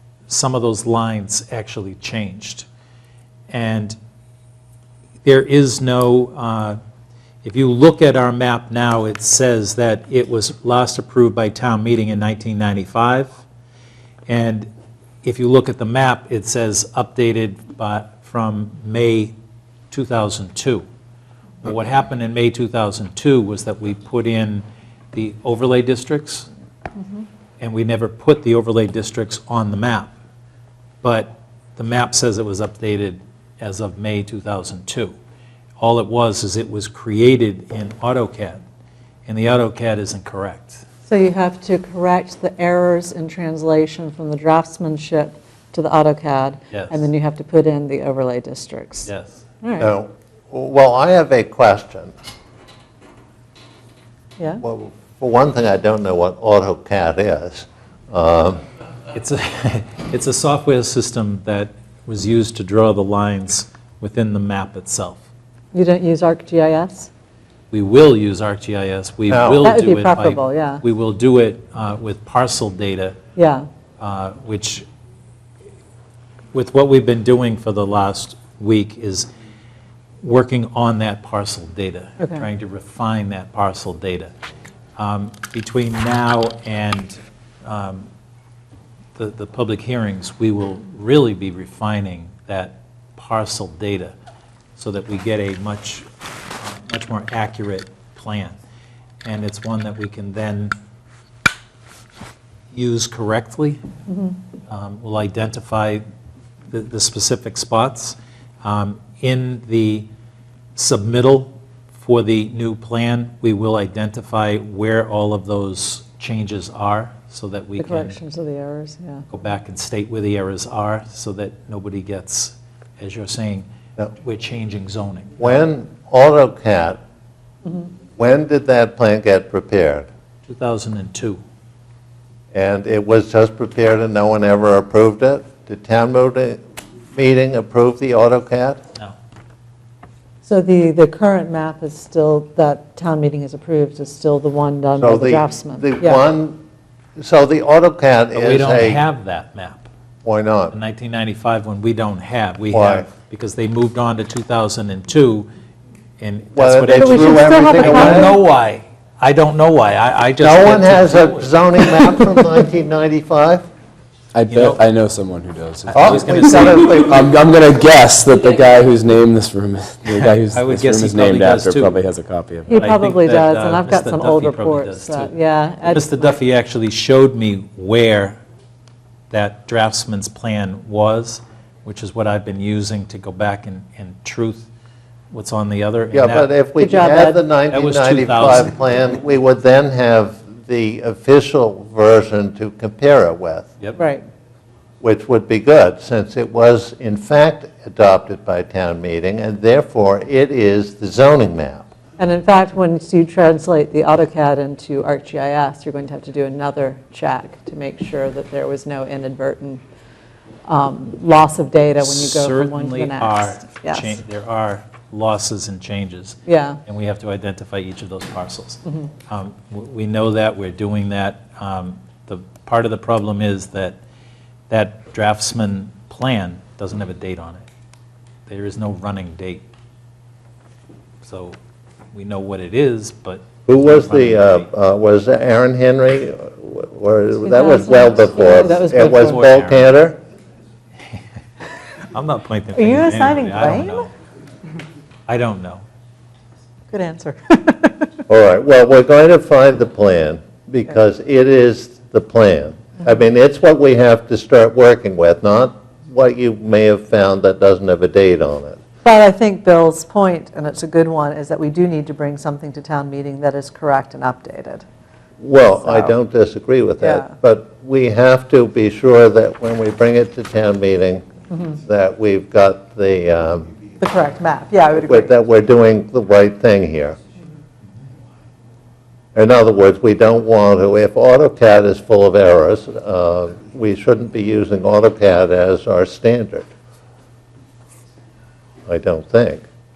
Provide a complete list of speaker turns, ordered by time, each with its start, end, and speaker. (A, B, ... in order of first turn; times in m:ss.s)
0:00.3-0:02.6 A
0:03.5-0:04.0 A
0:05.2-0:06.8 A
0:07.4-0:13.4 A
0:14.3-0:14.7 A
0:15.2-0:19.3 A
0:19.9-0:20.8 A
0:21.6-0:26.5 A
0:27.6-0:30.1 A
0:31.0-0:35.2 A
0:35.8-0:38.6 A
0:39.3-0:40.8 A
0:41.1-0:49.1 B
0:46.7-0:47.0 A
0:49.1-0:49.4 A
0:49.6-0:49.9 B
0:49.8-0:52.1 C
0:54.6-0:58.6 C
0:59.1-1:05.2 A
1:05.7-1:07.1 B
1:07.7-1:13.2 A
1:09.3-1:09.7 C
1:09.6-1:10.8 B
1:13.4-1:13.7 B
1:14.0-1:14.9 A
1:16.5-1:19.3 A
1:20.2-1:24.3 A
1:22.2-1:22.4 B
1:25.0-1:28.1 A
1:29.2-1:34.1 A
1:34.8-1:36.1 A
1:36.6-1:38.6 A
1:39.2-1:40.8 A
1:42.7-1:43.8 A
1:44.1-1:44.4 B
1:44.7-1:46.0 A
1:46.7-1:50.1 A
1:50.8-1:58.2 A
1:57.8-1:59.2 B
1:59.3-2:05.6 A
2:05.4-2:07.0 C
2:08.2-2:10.1 C
2:10.5-2:11.4 A
2:12.5-2:16.6 C
2:17.2-2:18.8 C
2:20.4-2:26.2 B
2:25.0-2:26.6 C
2:27.2-2:29.0 C
2:28.3-2:29.9 A
2:30.2-2:30.8 C
2:30.7-2:35.5 A
2:32.7-2:33.1 C
2:36.2-2:41.5 A
2:36.6-2:38.4 C
2:36.9-2:38.4 B
2:40.4-2:43.7 C
2:44.3-2:52.8 D
2:44.5-2:44.8 A
2:45.9-2:47.3 A
2:45.9-2:47.2 C
2:50.2-2:52.0 A
2:52.7-2:56.4 B
2:52.8-2:55.3 A
2:55.8-2:58.4 A
2:59.3-3:04.7 A
3:05.3-3:06.5 A
3:06.1-3:13.7 C
3:06.8-3:07.4 B
3:07.7-3:08.7 A
3:14.0-3:14.2 B
3:15.0-3:21.8 C
3:22.2-3:29.8 B
3:30.7-3:34.2 B
3:32.0-3:44.0 A
3:36.5-3:36.8 B
3:38.8-3:39.1 B
3:44.7-3:47.7 A
3:48.5-3:49.6 A
3:51.2-3:51.6 A
3:52.1-3:54.7 A
3:53.7-4:00.2 C
3:57.4-3:59.5 B
3:58.9-3:59.9 A
4:02.1-4:04.1 A
4:02.7-4:04.1 B
4:05.3-4:05.8 A
4:06.9-4:08.1 B
4:08.3-4:18.8 C
4:19.0-4:24.8 B
4:25.4-4:33.7 C
4:25.8-4:26.1 B
4:27.0-4:27.3 B
4:34.0-4:35.3 B
4:34.9-4:37.2 C
4:39.4-4:46.7 C
4:48.9-4:49.6 C